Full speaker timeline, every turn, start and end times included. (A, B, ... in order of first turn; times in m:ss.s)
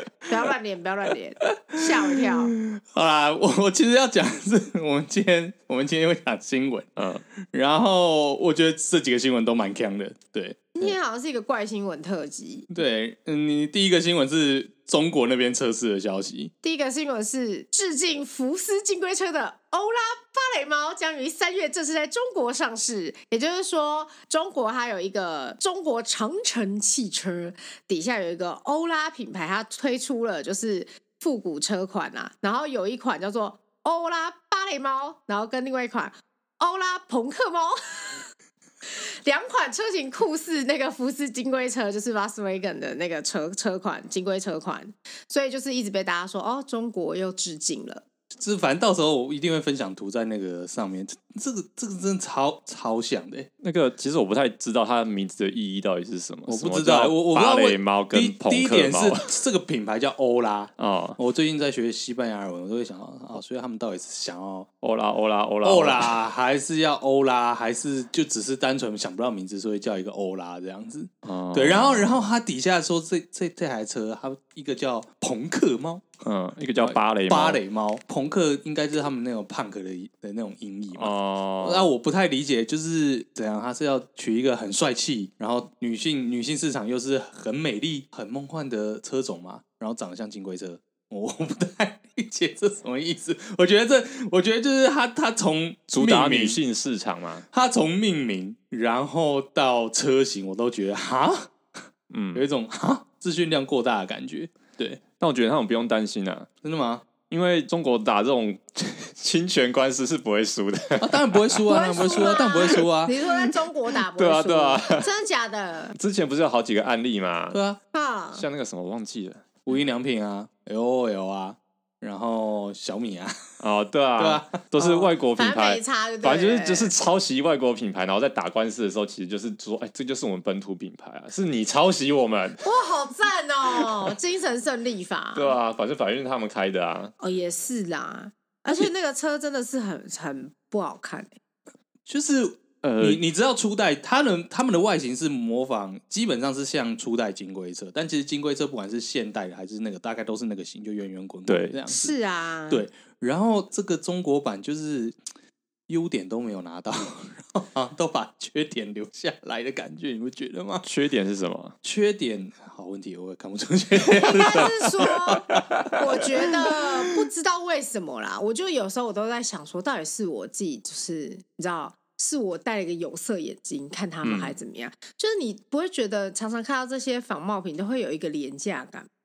0:00.2-0:02.6 A
0:01.7-0:06.9 B
0:07.0-0:07.2 C
0:07.4-0:10.7 B
0:10.7-0:12.7 A
0:12.7-0:16.5 B
0:16.6-0:38.2 A
0:38.9-0:48.0 A
0:48.3-0:53.5 B
0:53.6-0:59.3 C
0:56.5-1:04.7 B
1:00.8-1:01.2 C
1:04.8-1:06.2 C
1:05.6-1:16.0 B
1:11.2-1:12.2 C
1:16.2-1:17.6 C
1:16.8-1:36.6 B
1:20.9-1:21.9 C
1:35.9-1:37.4 C
1:37.5-1:41.5 B
1:42.1-1:42.4 C
1:42.3-1:45.0 B
1:45.2-1:46.5 C
1:46.6-1:47.0 B
1:47.3-1:52.2 C
1:51.0-1:53.2 B
1:51.7-1:55.9 A
1:54.1-1:55.1 C
1:55.9-1:57.6 C
1:57.5-1:57.8 B
1:57.9-1:58.4 A
1:58.3-1:59.6 C
1:59.7-2:03.4 B
2:03.6-2:12.6 C
2:04.2-2:04.9 B
2:04.8-2:06.9 A
2:12.6-2:15.6 A
2:15.3-2:17.1 C
2:17.2-2:21.3 A
2:22.1-2:32.1 B
2:22.8-2:23.2 C
2:31.5-2:31.8 C
2:31.9-2:32.8 A
2:32.7-2:35.2 B
2:35.9-2:40.8 B
2:40.8-2:41.7 C
2:41.8-2:46.9 B
2:44.0-2:59.1 A
2:54.2-2:54.5 C